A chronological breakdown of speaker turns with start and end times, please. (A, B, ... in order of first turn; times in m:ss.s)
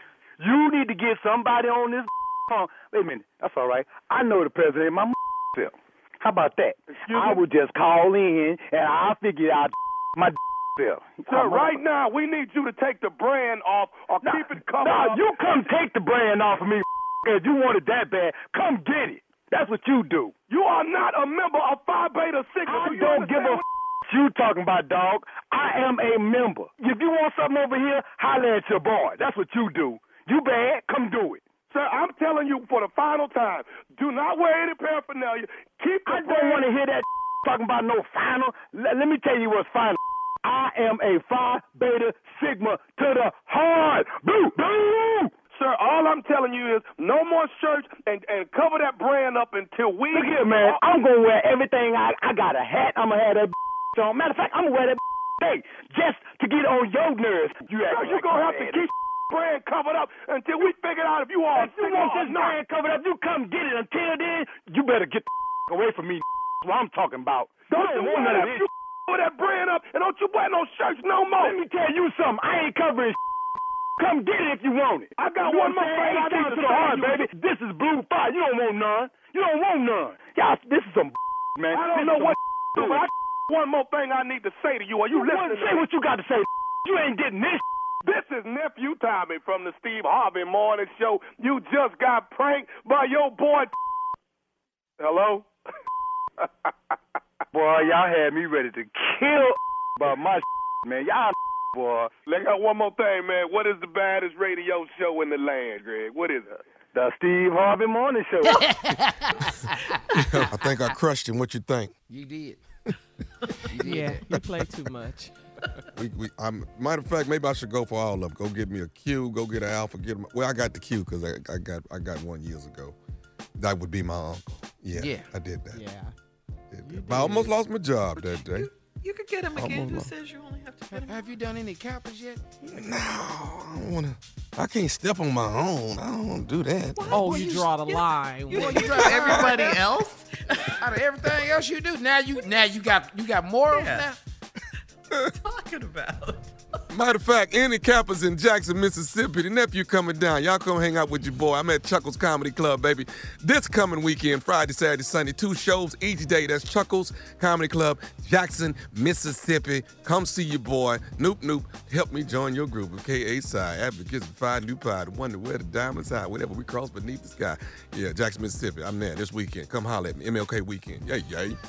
0:00.4-0:11.8 A
0:06.9-0:07.4 B
0:11.3-0:15.2 B
0:14.2-0:20.3 A
0:20.5-0:23.6 B
0:22.6-0:31.4 A
0:31.7-0:36.7 B
0:36.0-0:45.3 A
0:45.5-0:50.8 B
0:50.1-0:58.9 A
0:57.9-1:02.6 B
1:01.5-1:08.6 A
1:07.7-1:11.6 B
1:11.4-1:13.2 A
1:14.0-1:23.0 A
1:15.2-1:17.3 B
1:21.7-1:25.8 B
1:25.1-1:27.6 A
1:28.0-1:33.7 B
1:35.0-1:35.5 B
1:36.4-1:36.7 B
1:37.5-1:42.1 A
1:42.2-1:46.6 B
1:46.9-1:48.6 A
1:48.6-1:49.1 C
1:50.1-1:51.9 D
1:52.1-1:52.6 C
1:53.7-1:54.4 C
1:53.8-1:55.3 E
1:54.2-1:54.7 D
1:55.9-2:03.0 D
2:03.6-2:05.8 D
2:04.9-2:05.3 C
2:05.7-2:06.1 E
2:06.7-2:08.7 D
2:06.8-2:07.5 E
2:08.2-2:11.4 F
2:09.5-2:10.1 D
2:10.9-2:12.4 C
2:12.6-2:17.1 D
2:17.0-2:21.0 F
2:17.1-2:17.7 C
2:17.2-2:19.7 E
2:18.5-2:19.8 C
2:19.0-2:19.4 D
2:20.8-2:24.2 C
2:23.7-2:24.1 F
2:25.4-2:26.8 F
2:26.9-2:51.6 D